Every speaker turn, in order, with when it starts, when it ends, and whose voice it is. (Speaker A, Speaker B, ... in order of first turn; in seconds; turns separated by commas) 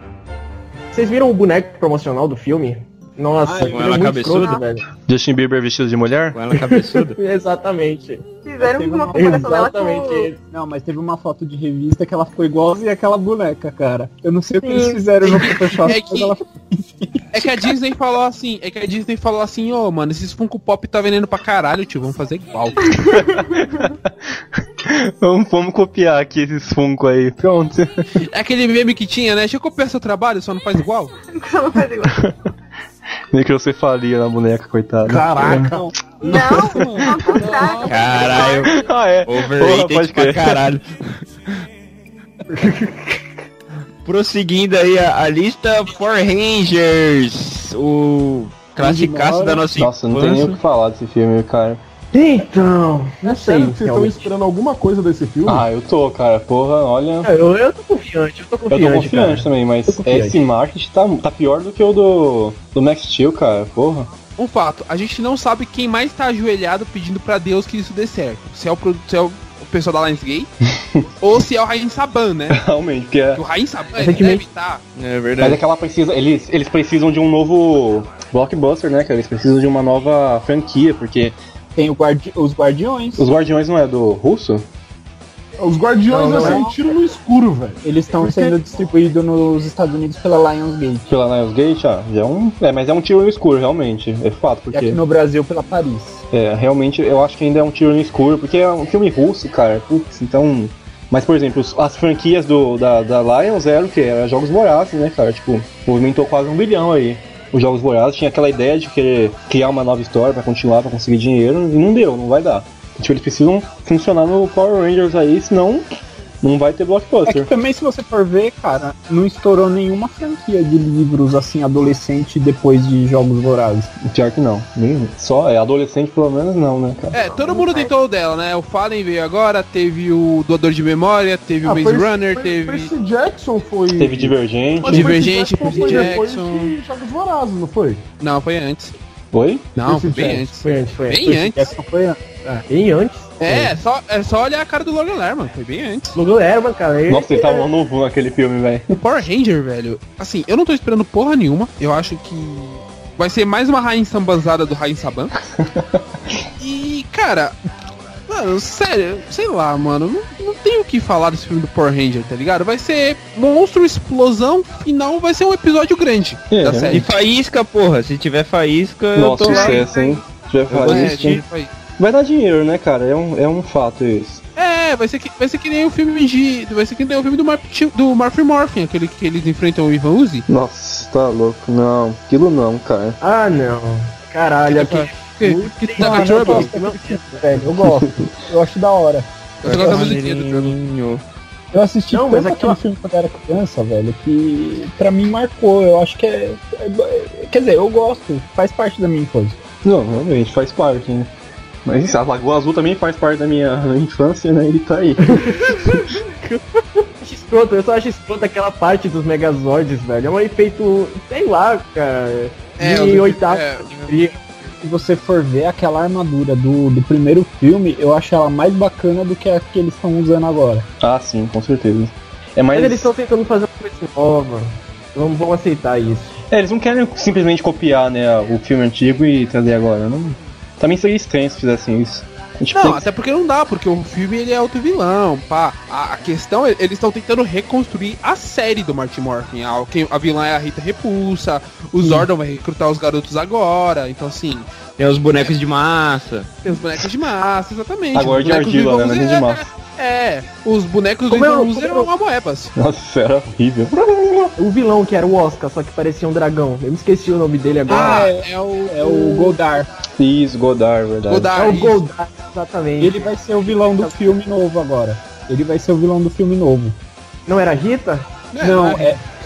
Speaker A: 0.9-4.9, Speaker B: 3.4-4.0, Speaker C: 3.7-4.6, Speaker D: 4.3-4.7, Speaker E: 5.1-6.4, Speaker C: 6.3-7.2, Speaker A: 6.5-8.2, Speaker D: 8.4-10.3, Speaker B: 8.6-9.6, Speaker A: 9.1-10.3, Speaker B: 10.3-17.7, Speaker D: 14.7-15.0, Speaker F: 15.2-16.4, Speaker F: 17.3-22.9, Speaker D: 22.8-23.9, Speaker E: 24.8-28.1, Speaker F: 28.2-31.1, Speaker D: 31.3-32.2, Speaker E: 32.1-32.3, Speaker E: 33.3-35.7, Speaker G: 35.1-35.8, Speaker B: 35.2-37.9, Speaker D: 36.2-38.8, Speaker E: 36.3-36.8, Speaker F: 37.5-37.8, Speaker C: 37.8-38.7, Speaker E: 38.7-40.6, Speaker C: 39.2-41.2, Speaker A: 42.5-43.2, Speaker C: 44.0-50.6, Speaker B: 48.8-49.7, Speaker E: 49.8-51.8, Speaker A: 52.1-54.3, Speaker G: 53.2-55.7, Speaker E: 55.5-57.3, Speaker A: 57.2-60.4, Speaker E: 58.7-64.1, Speaker F: 64.4-70.5, Speaker F: 71.2-72.6, Speaker E: 72.5-73.4, Speaker F: 73.3-74.8, Speaker A: 74.0-74.4, Speaker C: 75.0-75.6, Speaker E: 75.4-81.4, Speaker B: 81.8-83.2, Speaker E: 83.2-84.7, Speaker G: 85.6-88.5, Speaker B: 86.1-86.8, Speaker A: 86.2-86.6, Speaker B: 87.8-91.1, Speaker E: 91.1-95.0, Speaker B: 94.7-96.2, Speaker E: 96.3-115.9, Speaker E: 116.4-117.5, Speaker B: 117.2-123.9, Speaker E: 124.0-127.2, Speaker F: 127.1-132.9, Speaker D: 127.5-127.8, Speaker G: 131.6-138.1, Speaker E: 133.9-135.3, Speaker F: 134.8-136.7, Speaker B: 135.8-136.1, Speaker F: 138.2-139.0, Speaker E: 139.3-139.8, Speaker F: 139.8-141.7, Speaker G: 139.8-140.5, Speaker A: 140.5-141.3, Speaker B: 141.2-142.7, Speaker A: 142.7-143.6, Speaker F: 143.4-146.2, Speaker A: 146.2-147.7, Speaker E: 147.1-149.0, Speaker F: 148.9-155.3, Speaker E: 155.6-155.8, Speaker F: 156.6-157.6, Speaker F: 158.3-167.1, Speaker E: 166.5-167.1, Speaker C: 166.9-169.9, Speaker E: 169.1-171.4, Speaker F: 169.4-170.2, Speaker C: 170.7-171.4, Speaker F: 170.8-171.7, Speaker E: 172.0-174.4, Speaker F: 174.6-180.5, Speaker E: 180.5-183.2, Speaker A: 183.2-187.7, Speaker F: 184.7-186.7, Speaker B: 186.0-190.1, Speaker E: 187.9-188.3, Speaker F: 189.6-190.8, Speaker C: 189.6-191.2, Speaker B: 191.7-199.6, Speaker A: 192.1-192.8, Speaker E: 199.8-201.3, Speaker E: 201.9-205.4, Speaker A: 205.2-206.6, Speaker A: 207.2-214.4, Speaker F: 212.8-214.2, Speaker B: 214.8-220.9, Speaker E: 221.0-223.1, Speaker A: 222.7-226.3, Speaker E: 226.5-233.1, Speaker F: 232.7-244.7, Speaker C: 245.0-246.5, Speaker F: 246.6-252.7, Speaker E: 248.1-249.7, Speaker A: 251.3-252.1, Speaker E: 252.8-254.6, Speaker A: 254.6-258.3, Speaker F: 257.9-259.6, Speaker B: 257.9-259.9, Speaker E: 260.2-261.5, Speaker F: 261.3-262.0, Speaker A: 261.6-263.3, Speaker B: 263.0-267.0, Speaker A: 264.0-264.3, Speaker A: 267.5-268.3, Speaker F: 268.5-269.2, Speaker B: 268.6-269.2